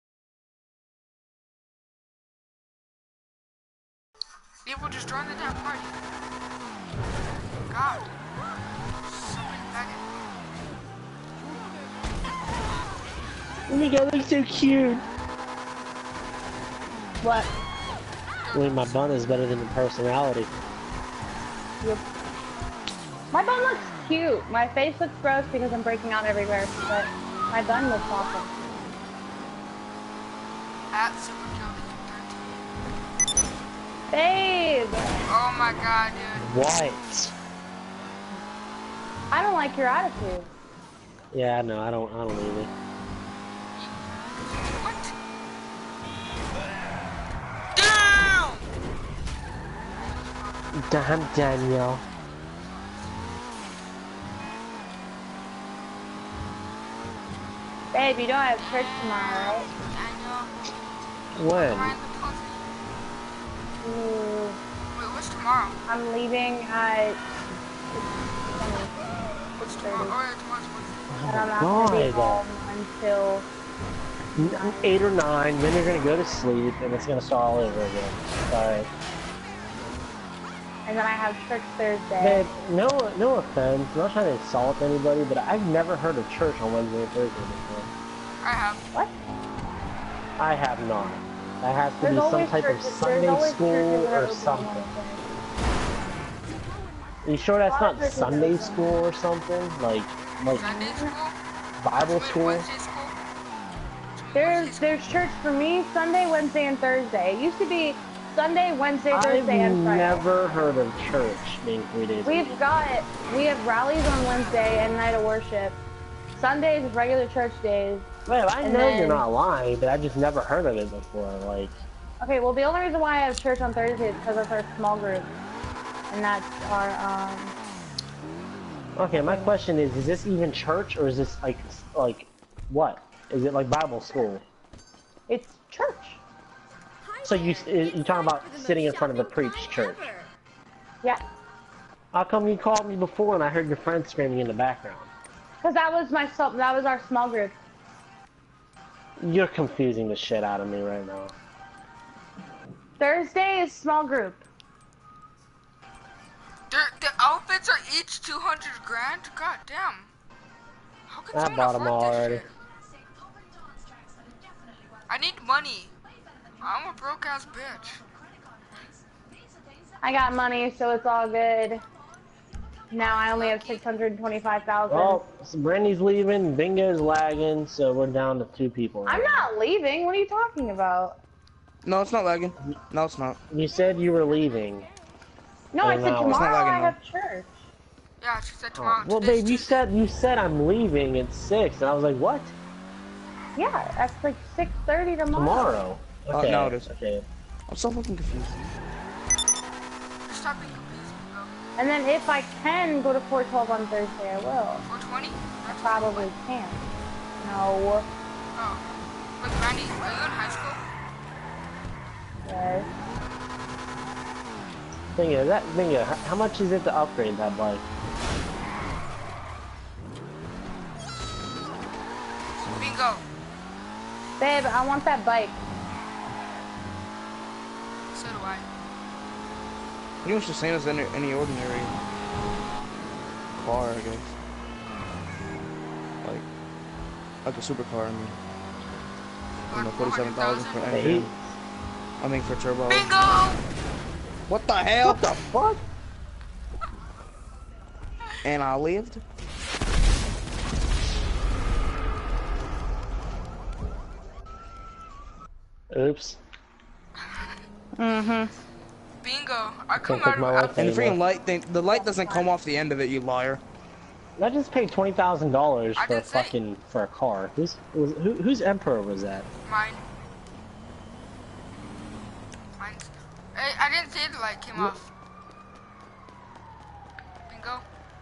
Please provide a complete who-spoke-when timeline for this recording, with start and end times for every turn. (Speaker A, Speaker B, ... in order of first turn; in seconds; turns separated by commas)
Speaker A: 4.7-6.0, Speaker A: 7.6-8.1, Speaker A: 9.0-10.1, Speaker B: 13.7-15.1, Speaker C: 17.2-17.5, Speaker A: 18.4-18.9, Speaker B: 18.5-20.5, Speaker C: 23.3-28.5, Speaker A: 30.9-32.6, Speaker C: 34.1-35.2, Speaker A: 35.3-36.5, Speaker B: 36.4-37.3, Speaker C: 39.3-40.5, Speaker B: 41.3-42.7, Speaker A: 43.8-45.1, Speaker A: 47.7-48.6, Speaker A: 50.0-53.1, Speaker B: 50.7-52.0, Speaker C: 57.9-59.7, Speaker A: 58.6-60.7, Speaker B: 61.4-62.0, Speaker A: 61.5-62.6, Speaker C: 63.8-64.6, Speaker A: 64.9-65.8, Speaker C: 65.9-67.2, Speaker C: 68.5-69.0, Speaker A: 69.6-71.2, Speaker C: 69.6-70.2, Speaker B: 71.1-72.4, Speaker C: 71.3-73.5, Speaker B: 74.4-78.9, Speaker C: 74.5-74.9, Speaker C: 80.8-82.5, Speaker B: 82.2-87.9, Speaker A: 88.4-88.8, Speaker B: 90.4-94.9, Speaker C: 92.0-95.2, Speaker B: 97.2-100.8, Speaker C: 97.7-98.9, Speaker A: 100.5-101.4, Speaker C: 100.5-101.1, Speaker B: 101.8-102.7, Speaker A: 101.9-103.2, Speaker A: 104.1-105.0, Speaker C: 104.3-110.4, Speaker B: 109.1-112.6, Speaker C: 112.2-115.8, Speaker C: 116.3-118.1, Speaker B: 118.3-121.8, Speaker C: 118.6-119.3, Speaker C: 122.2-125.3, Speaker C: 126.1-127.5, Speaker B: 129.0-134.4, Speaker C: 129.2-129.5, Speaker C: 135.3-136.2, Speaker B: 137.2-140.2, Speaker B: 142.1-145.1, Speaker C: 145.6-147.6, Speaker B: 149.2-151.3, Speaker C: 153.0-154.4, Speaker A: 156.7-160.1, Speaker A: 161.1-162.5, Speaker B: 161.3-162.4, Speaker A: 165.1-165.9, Speaker A: 166.6-168.0, Speaker C: 170.0-171.8, Speaker C: 172.9-175.2, Speaker A: 173.0-173.8, Speaker B: 174.9-179.5, Speaker C: 179.1-181.2, Speaker D: 181.8-183.4, Speaker B: 183.5-184.9, Speaker C: 185.7-187.5, Speaker B: 185.8-186.5, Speaker D: 186.3-187.0, Speaker A: 188.2-189.8, Speaker B: 188.8-192.5, Speaker C: 193.6-195.8, Speaker B: 195.3-197.3, Speaker D: 196.3-196.9, Speaker D: 197.7-198.7, Speaker A: 200.3-201.5, Speaker C: 201.8-204.8, Speaker A: 204.9-206.3, Speaker C: 205.7-206.8, Speaker C: 207.4-208.1, Speaker A: 208.6-208.8, Speaker A: 209.4-210.8, Speaker C: 212.4-212.9, Speaker B: 215.2-217.8, Speaker A: 222.7-223.2, Speaker C: 224.4-225.6, Speaker A: 228.1-228.7, Speaker D: 230.2-231.9, Speaker D: 233.5-234.3, Speaker D: 237.4-238.4, Speaker A: 239.7-240.8, Speaker D: 239.7-241.3, Speaker B: 240.9-241.6, Speaker D: 242.2-243.1, Speaker A: 242.9-243.6, Speaker D: 244.5-245.3, Speaker B: 245.0-245.8, Speaker D: 248.4-249.2, Speaker B: 255.9-256.4, Speaker C: 258.0-258.5, Speaker A: 259.2-260.8, Speaker B: 260.0-261.2, Speaker D: 260.8-263.6, Speaker C: 261.9-262.5, Speaker B: 264.4-269.5, Speaker A: 266.0-266.6, Speaker A: 269.7-270.0, Speaker A: 272.8-275.1, Speaker A: 277.5-277.8